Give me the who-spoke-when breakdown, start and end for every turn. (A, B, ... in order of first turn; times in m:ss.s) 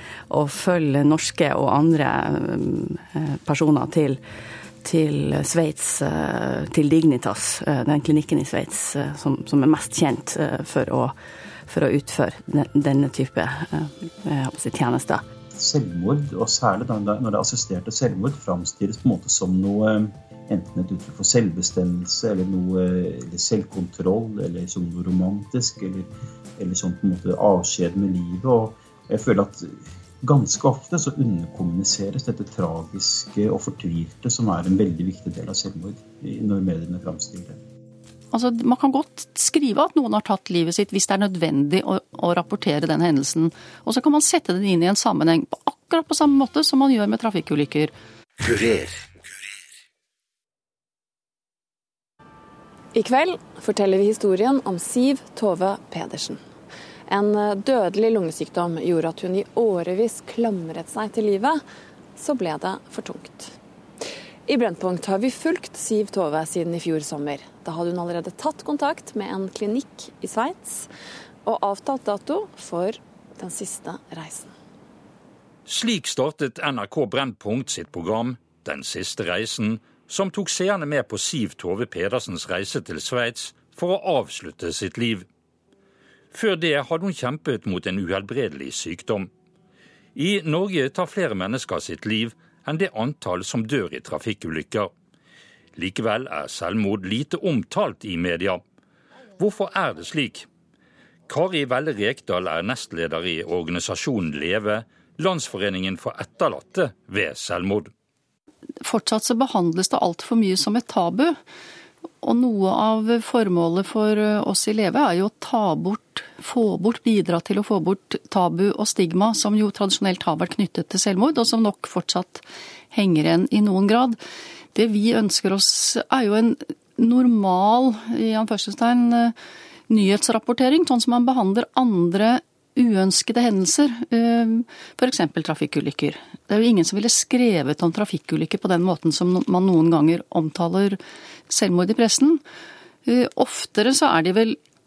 0:00.3-0:04.2 A
0:04.8-0:11.2 A
0:11.7-0:15.2 A
0:15.5-0:37.6 B
0:38.3-0:47.9 C
0:52.9-0:56.4 D
0:57.1-1:01.6 D
1:02.2-1:03.6 D
1:04.5-1:10.9 D
1:11.4-1:14.5 D
1:15.7-1:25.3 E
1:26.3-1:29.3 E
1:30.2-1:34.9 E
1:35.8-1:38.6 E
1:39.4-1:40.5 E
1:41.3-1:47.9 E
1:48.8-1:51.4 C
1:52.2-2:04.2 C
2:04.7-2:09.4 C
2:09.9-2:22.4 C
2:23.0-2:24.6 C